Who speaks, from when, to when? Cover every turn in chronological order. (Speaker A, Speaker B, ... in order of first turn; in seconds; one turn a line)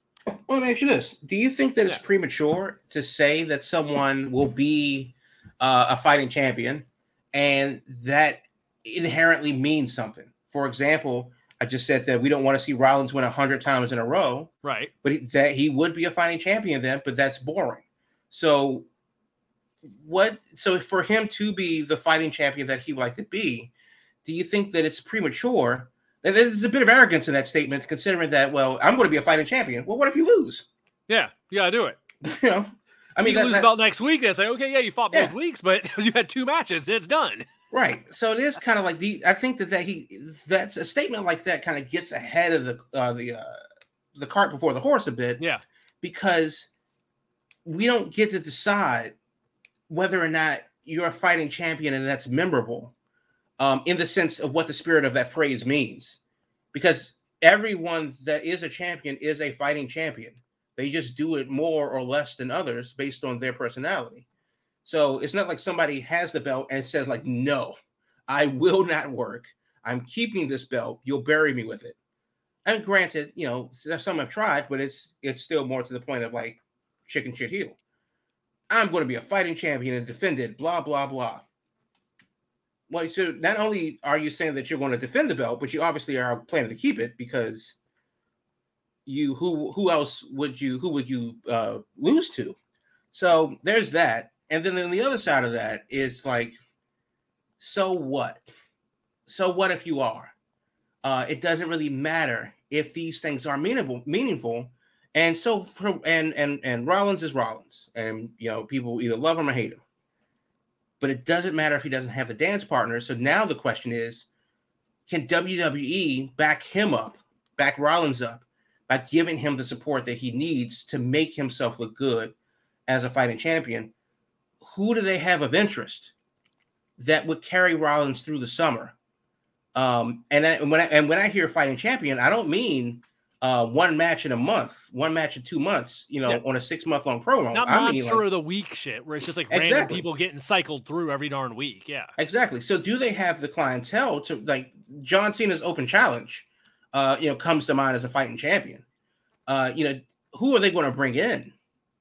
Speaker A: 0.3-14.5
Speaker B: 14.6-14.9
Speaker A: 15.0-18.9
Speaker A: 19.8-23.7
Speaker A: 24.2-30.7
Speaker B: 31.1-32.0
Speaker A: 32.2-33.7
Speaker B: 33.2-37.5
Speaker A: 37.7-43.6
Speaker A: 44.1-45.4
Speaker A: 46.0-46.7
Speaker A: 47.6-49.1
Speaker A: 49.9-52.9
Speaker A: 53.6-56.2
Speaker A: 56.7-64.2
Speaker A: 64.8-67.8
Speaker A: 68.3-72.0
Speaker A: 72.6-77.8
Speaker A: 78.7-81.4
Speaker A: 82.9-87.7
Speaker A: 89.0-92.6
Speaker A: 93.1-96.5
Speaker A: 97.6-98.4
Speaker A: 99.3-100.3
Speaker A: 101.0-109.8
Speaker A: 111.0-114.2
Speaker A: 115.1-122.3
Speaker A: 122.9-123.9
Speaker A: 124.6-126.1
Speaker A: 127.0-128.9
Speaker A: 129.7-138.2
Speaker B: 137.5-142.1
Speaker A: 139.5-140.0
Speaker A: 142.2-148.8
Speaker A: 149.5-151.5